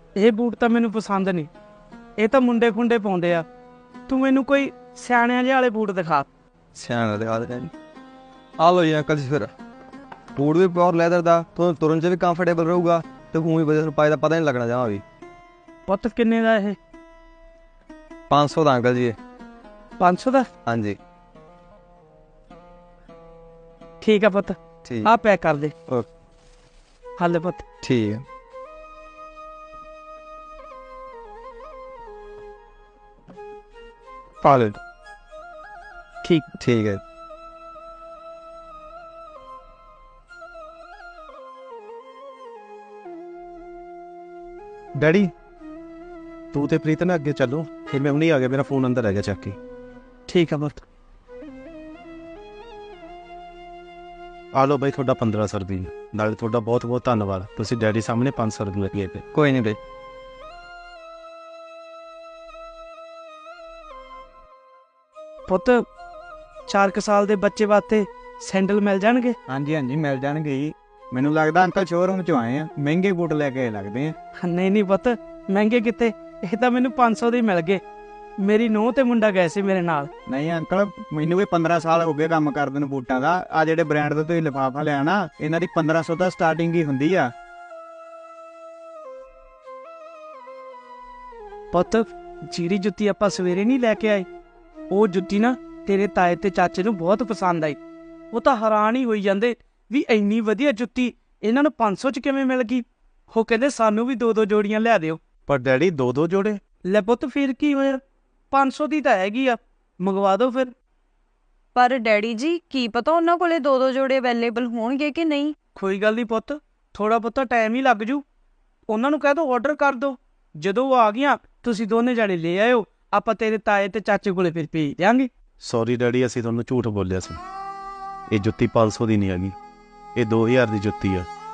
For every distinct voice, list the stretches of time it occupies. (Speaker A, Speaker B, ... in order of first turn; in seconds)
Speaker A: 0.2-1.5, 2.2-3.5, 4.1-6.3, 15.9-16.8, 20.0-20.5, 24.0-25.7, 27.2-27.6, 36.2-36.5, 50.3-50.8, 65.5-65.8, 66.7-69.3, 74.4-77.8, 78.4-80.1, 91.7-94.3, 94.9-97.8, 98.3-105.2, 106.8-108.0, 108.5-110.7, 115.8-118.2, 118.9-125.3
Speaker B: 6.7-7.7, 8.6-9.5, 10.3-15.0, 18.3-19.2, 20.7-21.0, 24.8-25.1, 27.8-28.2, 34.4-34.8, 36.6-37.0, 59.3-59.8
Speaker C: 45.0-45.3, 46.5-49.5, 54.5-59.2, 105.5-106.6, 125.6-127.4, 128.3-129.5, 130.2-131.3
Speaker D: 69.5-74.1, 80.3-87.3
Speaker E: 111.7-115.5